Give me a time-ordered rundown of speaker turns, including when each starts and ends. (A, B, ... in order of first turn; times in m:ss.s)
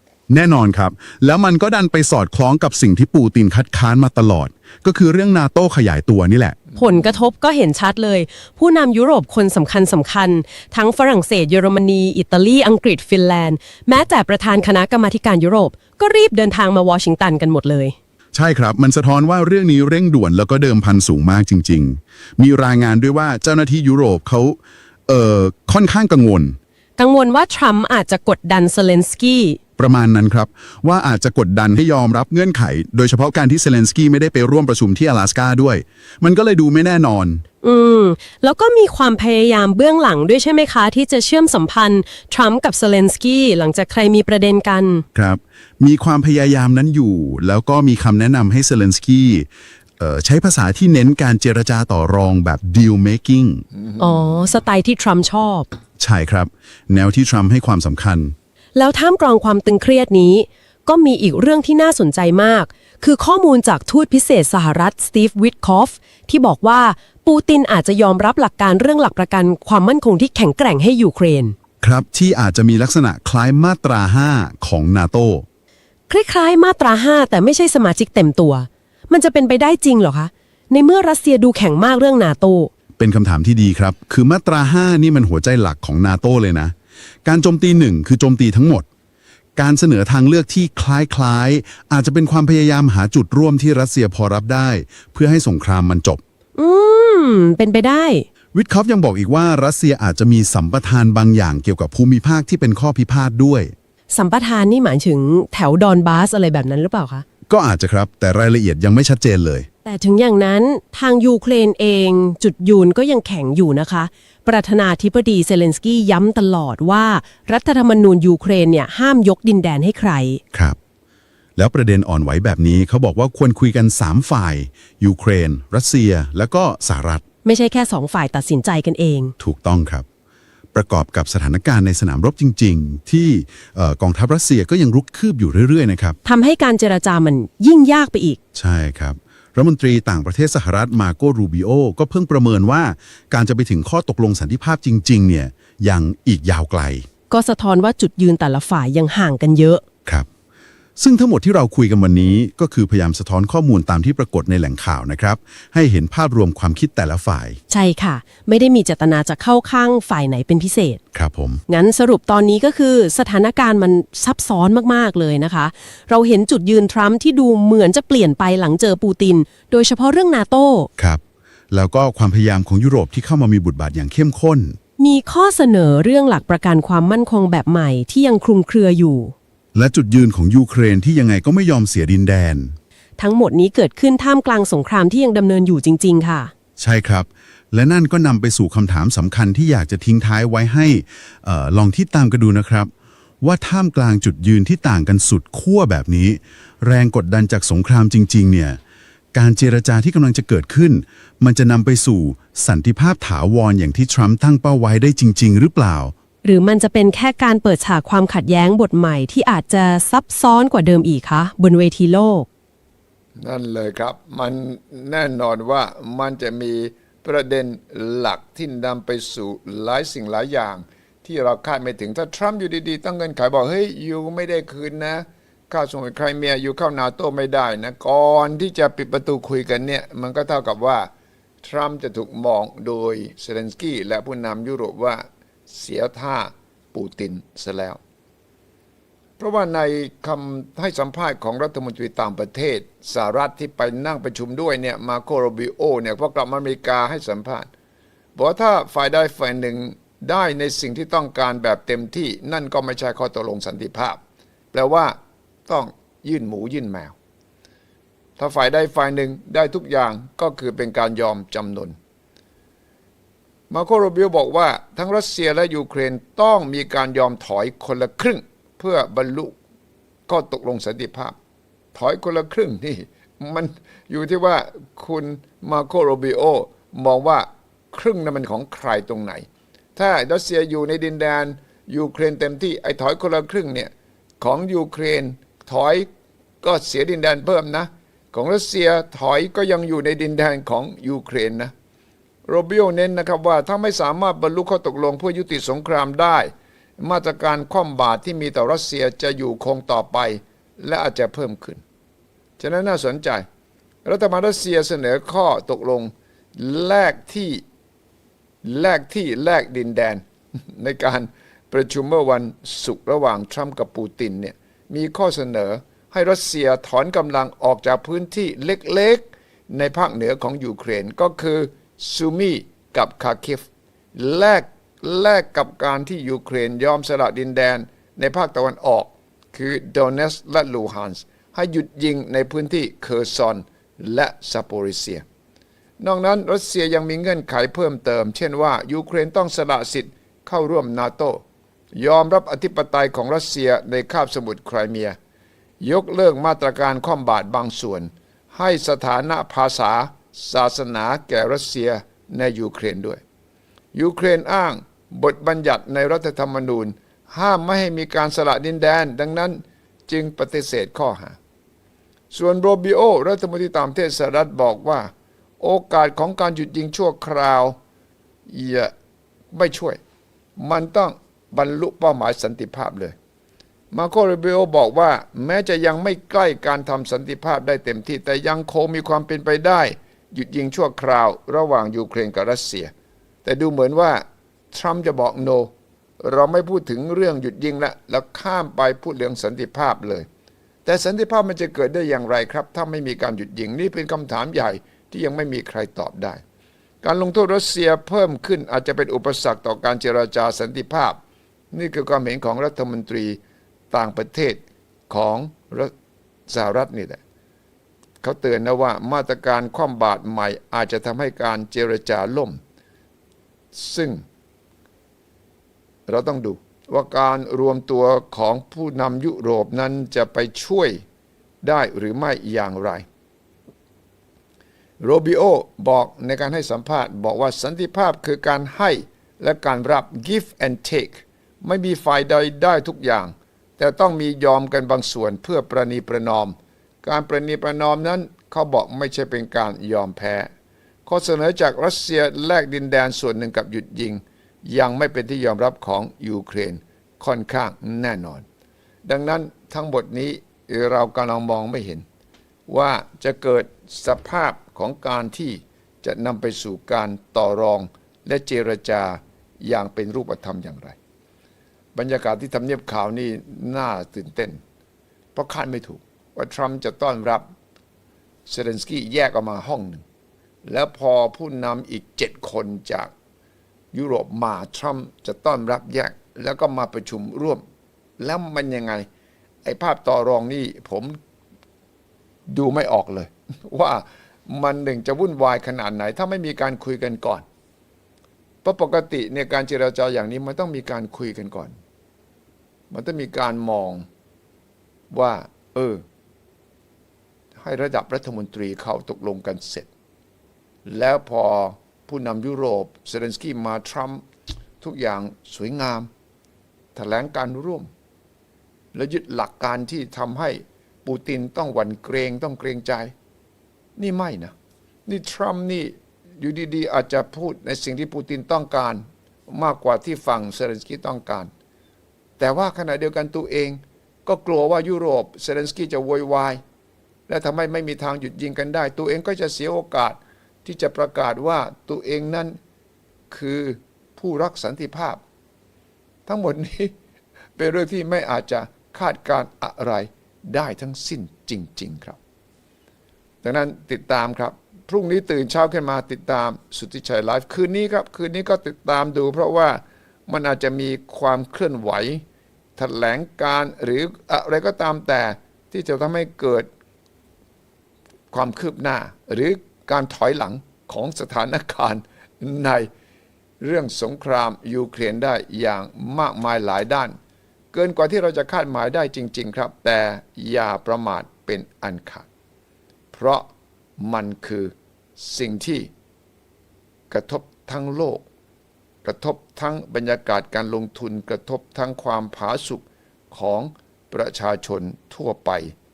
0:00.3-0:06.6 A
0:06.8-0:17.9 B
0:18.3-0:26.6 A
0:27.0-0:29.6 B
0:29.8-0:37.4 A
0:37.6-0:45.0 B
0:45.1-0:53.6 A
0:54.0-0:55.7 B
0:56.0-0:58.3 A
0:58.7-1:11.5 B
1:11.8-1:15.4 A
1:16.1-1:22.7 B
1:23.0-1:28.8 A
1:29.6-1:36.2 A
1:36.6-1:38.2 B
1:38.5-1:43.7 A
1:44.1-1:47.2 B
1:47.5-1:49.7 A
1:49.8-2:00.4 B
2:01.6-2:07.2 A
2:07.4-2:09.3 B
2:09.4-2:10.0 A
2:10.7-2:16.2 A
2:16.2-2:18.4 B
2:18.5-2:27.1 A
2:27.3-2:29.8 B
2:31.0-2:37.6 A
2:37.7-2:41.0 B
2:41.1-2:41.6 A
2:41.7-2:50.9 B
2:51.0-2:54.8 A
2:55.0-2:59.3 B
2:59.7-3:02.8 A
3:03.2-3:06.5 B
3:06.8-3:12.9 A
3:13.4-3:18.8 A
3:19.3-3:26.1 A
3:26.4-3:32.5 B
3:33.4-3:51.1 C
3:51.6-3:58.0 C
3:59.4-4:07.7 C
4:08.4-4:14.2 C
4:14.7-4:15.2 C
4:15.7-4:17.1 C
4:18.4-4:22.0 C
4:23.7-4:29.6 C
4:30.3-4:31.4 C
4:31.9-4:46.1 C
4:46.6-4:51.7 C
4:52.5-5:01.8 C
5:02.6-5:03.4 C
5:04.0-5:07.6 C
5:08.6-5:35.2 C
5:36.0-5:41.4 C
5:42.0-5:45.2 C
5:45.8-5:53.2 C
5:53.9-6:01.4 C
6:02.3-6:07.8 C
6:08.5-6:08.9 C
6:09.5-6:10.0 C
6:10.6-6:13.2 C
6:13.9-6:22.9 C
6:23.4-6:30.3 C
6:30.8-6:36.4 C
6:37.0-6:41.2 C
6:41.7-6:43.4 C
6:43.9-6:45.9 C
6:46.5-6:47.2 C
6:48.2-6:52.6 C
6:53.7-6:54.2 C
6:56.1-7:01.0 C
7:01.6-7:03.0 C
7:05.0-7:20.5 C
7:21.0-7:28.4 C
7:29.0-7:32.0 C
7:32.7-7:41.0 C
7:41.9-7:44.6 C
7:45.3-7:47.4 C
7:48.5-7:50.0 C
7:50.6-7:53.1 C
7:53.9-7:57.6 C
7:58.2-7:59.1 C
7:59.6-8:01.2 C
8:02.5-8:07.4 C
8:08.6-8:11.7 C
8:12.9-8:14.0 C
8:15.1-8:16.0 C
8:17.6-8:19.9 C
8:20.8-8:24.2 C
8:24.8-8:26.1 C
8:26.9-8:27.9 C
8:28.9-8:33.1 C
8:34.0-8:34.5 C
8:35.0-8:41.5 C
8:42.4-8:46.6 C
8:47.3-8:52.6 C
8:53.3-8:55.2 C
8:56.3-8:56.9 C
8:57.6-9:02.2 C
9:03.4-9:12.2 C
9:12.8-9:16.7 C
9:18.3-9:22.9 C
9:23.6-9:27.2 C
9:27.7-9:32.2 C
9:33.1-9:35.9 C
9:37.1-9:38.2 C
9:39.0-9:45.7 C